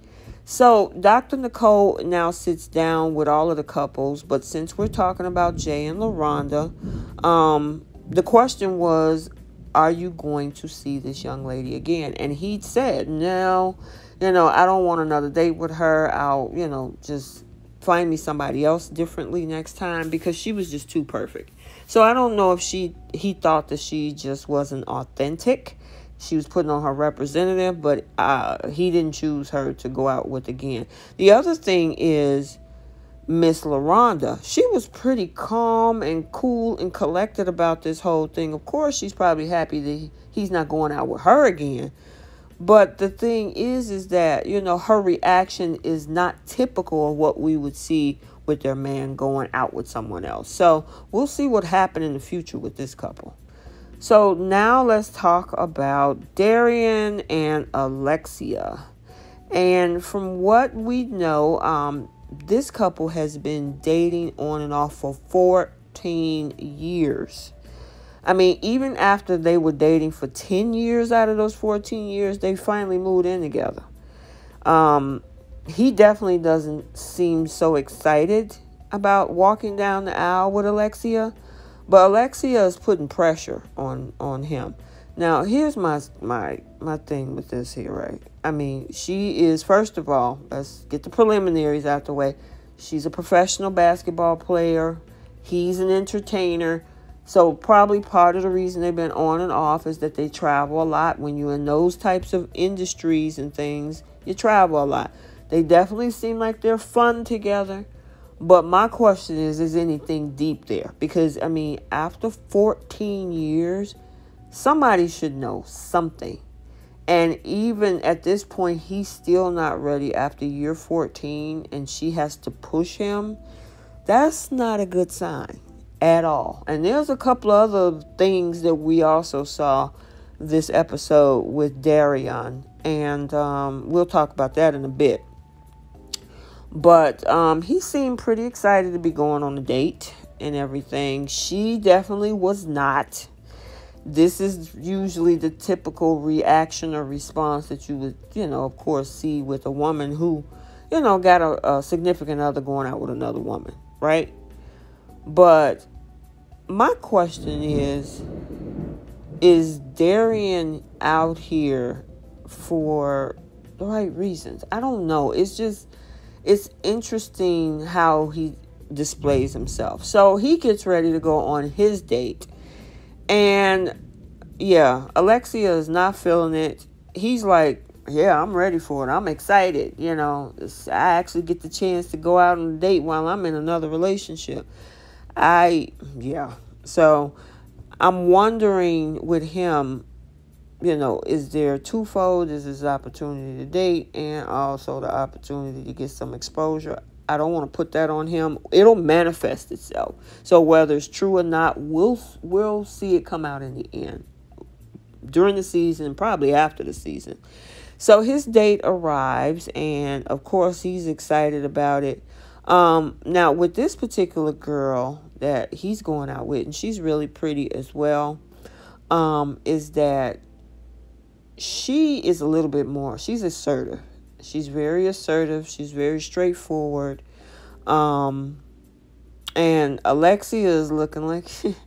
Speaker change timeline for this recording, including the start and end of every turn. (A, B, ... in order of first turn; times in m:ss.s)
0:00.4-0:32.6 A
0:33.3-0:41.9 A
0:42.6-0:53.4 A
0:54.0-0:58.8 A
0:59.5-1:07.5 A
1:08.2-1:13.8 A
1:14.6-1:21.4 A
1:21.9-1:47.9 A
1:48.4-1:54.0 A
1:54.5-1:56.4 A
1:57.1-2:03.4 A
2:04.1-2:15.3 A
2:16.7-2:23.3 A
2:24.1-2:34.3 A
2:35.3-2:35.9 A
2:36.7-2:38.2 A
2:39.4-2:45.9 A
2:46.4-2:52.5 A
2:53.3-2:54.0 A
2:54.6-3:04.7 A
3:05.4-3:07.4 A
3:08.0-3:10.1 A
3:10.8-3:24.3 A
3:25.2-3:27.4 A
3:28.0-3:38.4 A
3:39.1-3:40.4 A
3:41.6-3:47.2 A
3:47.9-3:48.6 A
3:49.6-3:51.7 A